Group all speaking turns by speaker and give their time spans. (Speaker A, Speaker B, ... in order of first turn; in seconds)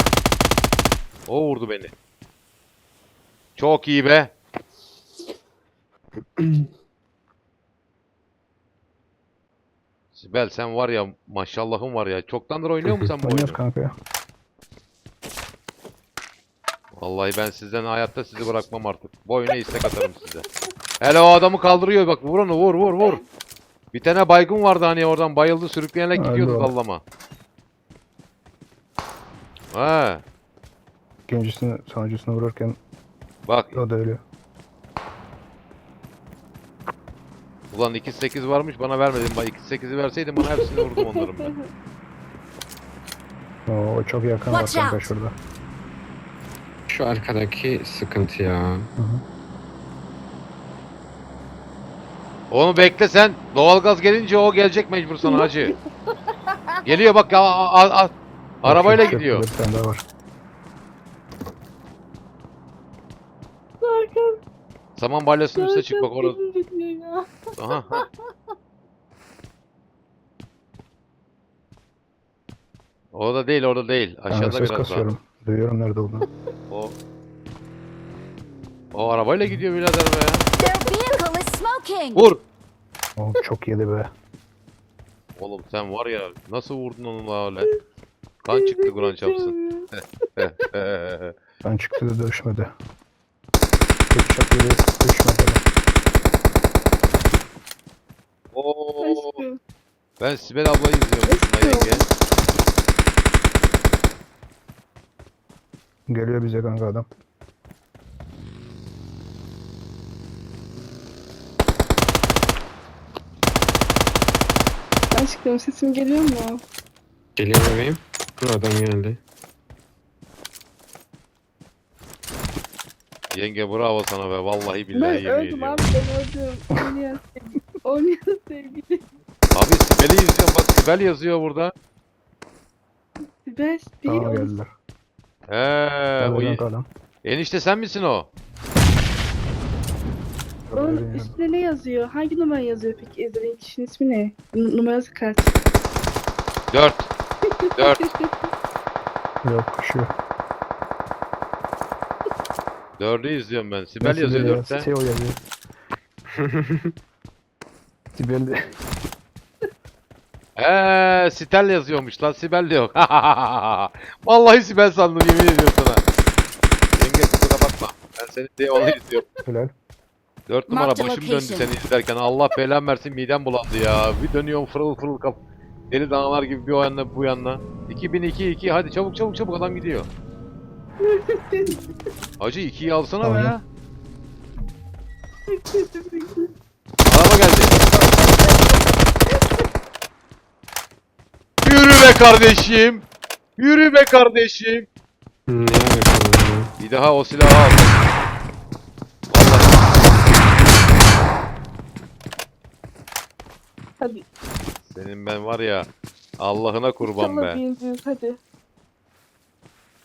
Speaker A: 1.3-1.9, 3.6-4.3, 10.1-13.6, 16.9-20.4, 21.0-23.2, 23.9-27.0, 29.7-30.2, 33.5-33.8, 37.7-41.5, 52.5-55.7, 56.9-59.4, 65.0-66.4, 67.6-68.0, 73.1-75.0, 76.7-77.0, 78.9-80.4, 82.1-82.4, 85.4-87.7, 88.4-91.3, 98.5-99.4, 100.2-102.0, 123.3-125.8, 129.5-131.7, 135.5-136.6, 137.2-138.3, 146.7-147.1, 147.8-148.1, 153.0-154.9, 160.6-166.0, 166.9-169.2, 170.5-180.1, 182.4-183.6, 187.1-187.8, 191.6-193.1, 193.6-194.9, 196.8-198.1, 199.3-200.4, 204.8-205.9, 206.4-207.6
Speaker B: 6.4-6.7, 46.9-48.9, 117.4-119.2, 156.3-156.9, 195.5-196.7
Speaker C: 13.2-13.9, 26.1-26.7, 31.3-32.8, 33.7-34.2, 43.7-45.3, 49.0-49.2, 58.6-60.0, 74.3-76.2, 83.2-84.1, 91.6-92.7, 94.1-95.6, 106.1-107.1, 134.1-134.7, 136.2-136.9, 140.7-141.4, 149.4-150.1, 154.0-155.4, 158.1-158.6, 169.4-169.7, 183.2-183.5
Speaker D: 40.4-41.7, 55.2-55.7, 56.5-56.8, 63.8-64.4, 65.5-68.3, 80.6-81.2, 88.5-90.7, 99.0-99.6, 101.2-102.1, 115.1-116.6, 124.9-129.0, 133.4-134.5, 140.8-145.5, 147.6-148.3, 168.7-169.3, 181.0-181.8, 185.5-186.5, 187.8-188.8, 204.0-204.2, 207.0-208.4
Speaker E: 44.5-45.1, 80.6-82.3, 170.7-171.7